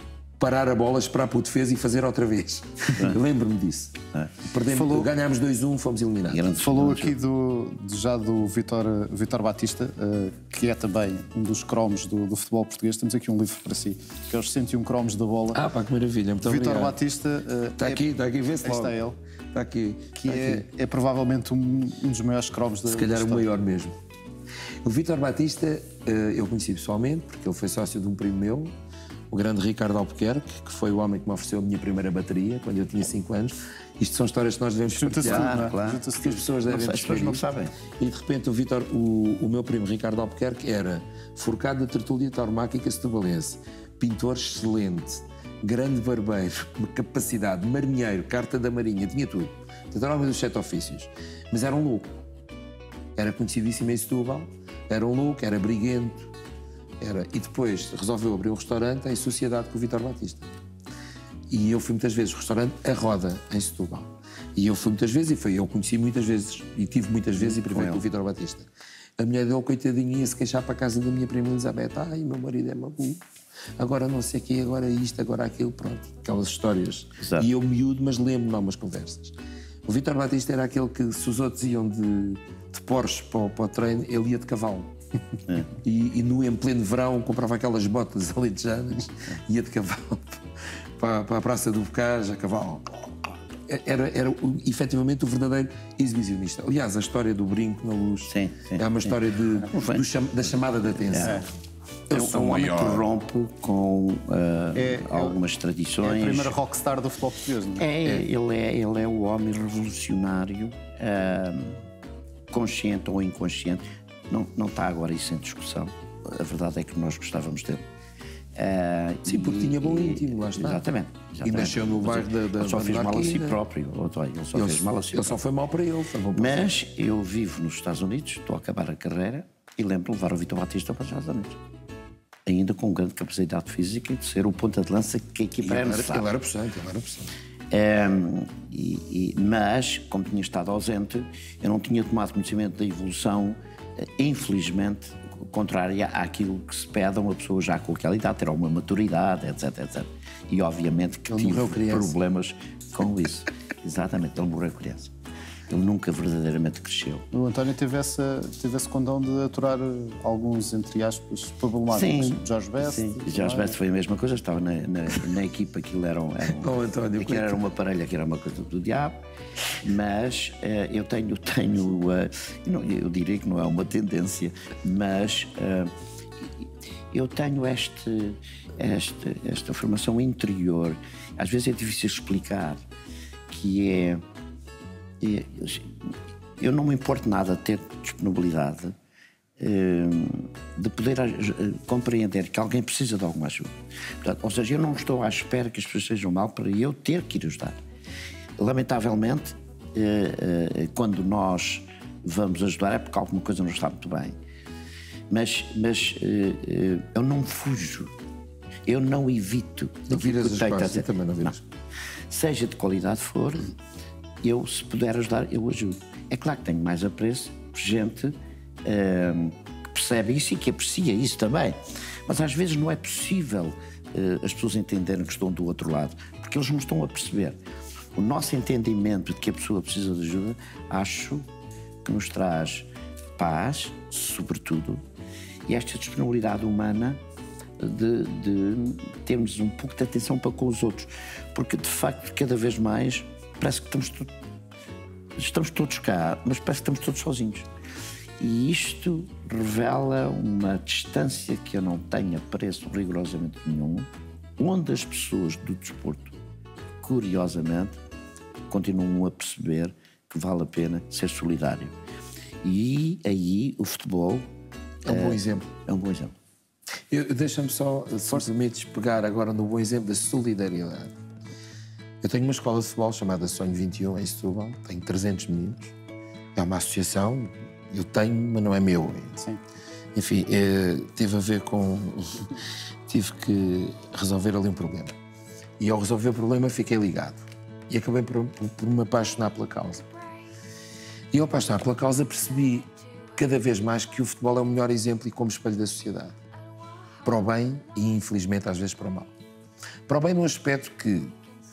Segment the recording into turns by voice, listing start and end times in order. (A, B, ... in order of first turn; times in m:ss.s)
0:00.4-0:06.6 A
0:02.9-0:03.2 B
0:04.6-0:05.1 C
0:06.3-0:07.2 B
0:06.6-0:15.6 C
0:15.5-0:17.0 A
0:16.4-0:18.0 C
0:17.8-0:19.0 A
0:18.6-0:19.2 C
0:19.5-0:20.7 A
0:20.2-0:23.5 C
0:22.9-0:24.0 A
0:24.8-0:28.7 A
0:29.3-0:52.2 A
0:34.9-0:36.5 C
0:35.2-0:37.8 B
0:53.2-0:56.3 A
0:57.0-1:00.5 A
1:01.5-1:08.7 A
1:07.4-1:08.0 B
1:09.2-1:13.2 A
1:13.8-1:24.9 A
1:17.2-1:17.5 B
1:25.8-1:30.4 A
1:31.0-1:41.5 A
1:38.3-1:40.0 B
1:41.0-1:41.5 B
1:42.1-1:43.1 A
1:42.1-1:46.6 B
1:44.8-1:45.4 C
1:46.0-1:47.9 C
1:47.8-1:51.8 B
1:52.5-1:57.8 B
1:58.6-2:05.4 B
1:59.3-2:00.9 A
2:01.4-2:03.6 A
2:04.5-2:06.7 A
2:06.4-2:11.6 B
2:12.5-2:16.3 B
2:15.6-2:17.3 A
2:17.7-2:35.1 B
2:31.3-2:32.2 A
2:35.7-2:37.3 B
2:37.3-2:43.8 C
2:41.9-2:49.2 B
2:46.6-2:47.6 A
2:49.8-3:02.8 B
3:03.5-3:04.2 B
3:05.2-3:09.0 B
3:09.6-3:17.8 B
3:18.6-3:24.4 B
3:25.3-3:28.1 B
3:28.9-3:31.5 B
3:30.1-3:31.6 A
3:32.3-3:33.7 B
3:34.4-3:47.6 B
3:48.2-3:51.5 B
3:52.0-3:55.0 B
3:55.7-3:57.2 B
3:57.8-4:04.3 B
4:05.4-4:07.7 B
4:08.4-4:16.4 B
4:17.0-4:18.0 B
4:18.7-4:22.0 B
4:22.6-4:24.5 B
4:25.0-4:25.7 A
4:25.1-4:26.3 B
4:27.1-4:31.2 A
4:32.2-4:35.9 A
4:36.6-4:39.4 A
4:40.2-4:45.2 A
4:45.8-4:50.1 A
4:51.3-4:56.4 A
4:57.2-4:59.3 A
5:00.1-5:01.3 A